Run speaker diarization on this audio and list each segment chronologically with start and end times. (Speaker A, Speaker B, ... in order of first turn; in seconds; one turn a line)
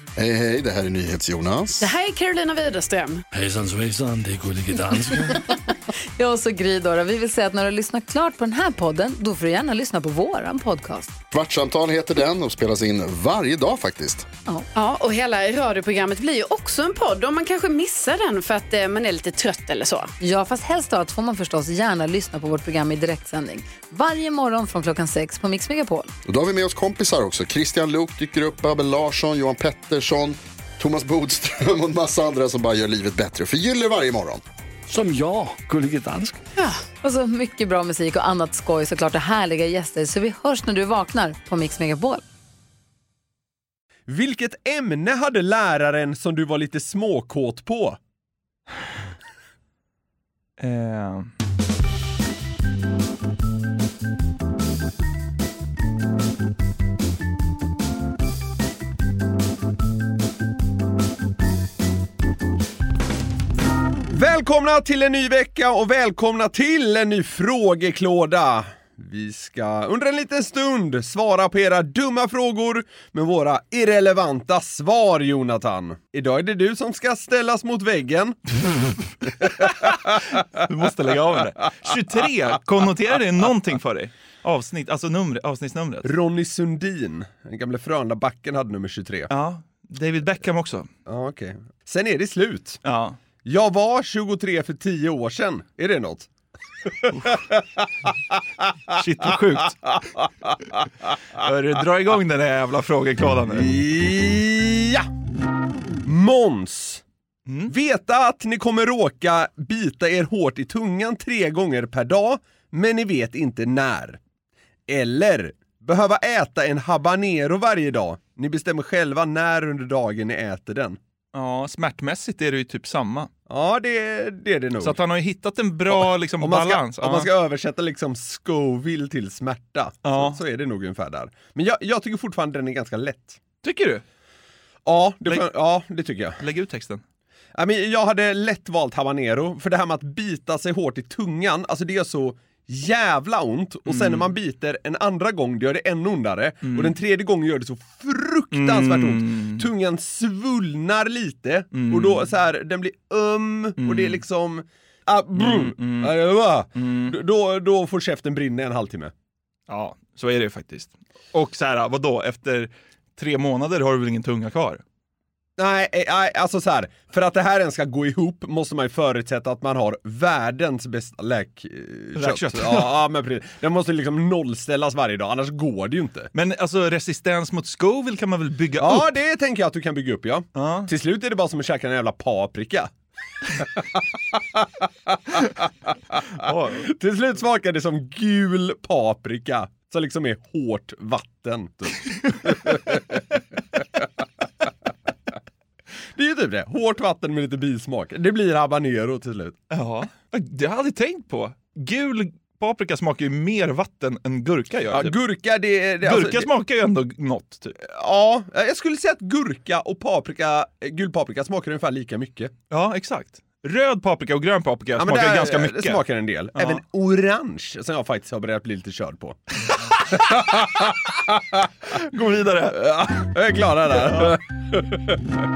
Speaker A: 0.2-1.9
Speaker B: 1.8-3.2
Speaker C: 3.3-5.4
Speaker D: 6.2-11.2
Speaker A: 11.3-14.3
Speaker B: 14.7-20.1
Speaker D: 20.2-26.1
Speaker A: 26.2-34.4
Speaker C: 34.9-36.4
Speaker D: 36.6-42.2
Speaker E: 44.1-48.0
Speaker F: 50.6-51.3
Speaker E: 64.1-78.4
Speaker E: 79.2-80.2
Speaker F: 79.4-86.1
Speaker E: 86.0-89.3
Speaker F: 89.3-90.9
Speaker E: 91.0-92.8
Speaker F: 92.8-93.2
Speaker E: 93.4-96.3
Speaker E: 96.8-100.9
Speaker F: 98.9-100.0
Speaker F: 101.3-103.7
Speaker E: 103.5-105.1
Speaker E: 106.0-107.0
Speaker F: 107.5-107.7
Speaker E: 107.7-114.2
Speaker E: 114.9-121.0
Speaker F: 121.3-123.3
Speaker E: 123.5-125.0
Speaker F: 124.8-127.3
Speaker E: 125.9-133.4
Speaker F: 130.1-130.4
Speaker F: 133.6-134.0
Speaker E: 134.8-136.4
Speaker F: 136.4-137.0
Speaker E: 137.6-159.1
Speaker F: 143.9-144.3
Speaker F: 146.6-146.9
Speaker F: 148.5-149.7
Speaker F: 151.7-152.3
Speaker F: 153.8-154.2
Speaker F: 155.4-156.2
Speaker F: 156.8-157.2
Speaker F: 159.7-164.8
Speaker E: 165.6-176.3
Speaker F: 172.2-172.9
Speaker F: 176.3-179.1
Speaker E: 178.8-182.9
Speaker F: 180.6-180.9
Speaker E: 183.4-194.1
Speaker F: 186.3-186.9
Speaker E: 196.2-199.6
Speaker F: 199.7-205.2
Speaker E: 204.9-206.5
Speaker F: 206.0-207.8
Speaker E: 207.8-212.5
Speaker F: 212.7-216.0
Speaker E: 215.0-221.7
Speaker F: 216.6-216.8
Speaker F: 219.8-220.9
Speaker F: 221.9-223.0
Speaker E: 222.7-225.2
Speaker F: 224.1-224.4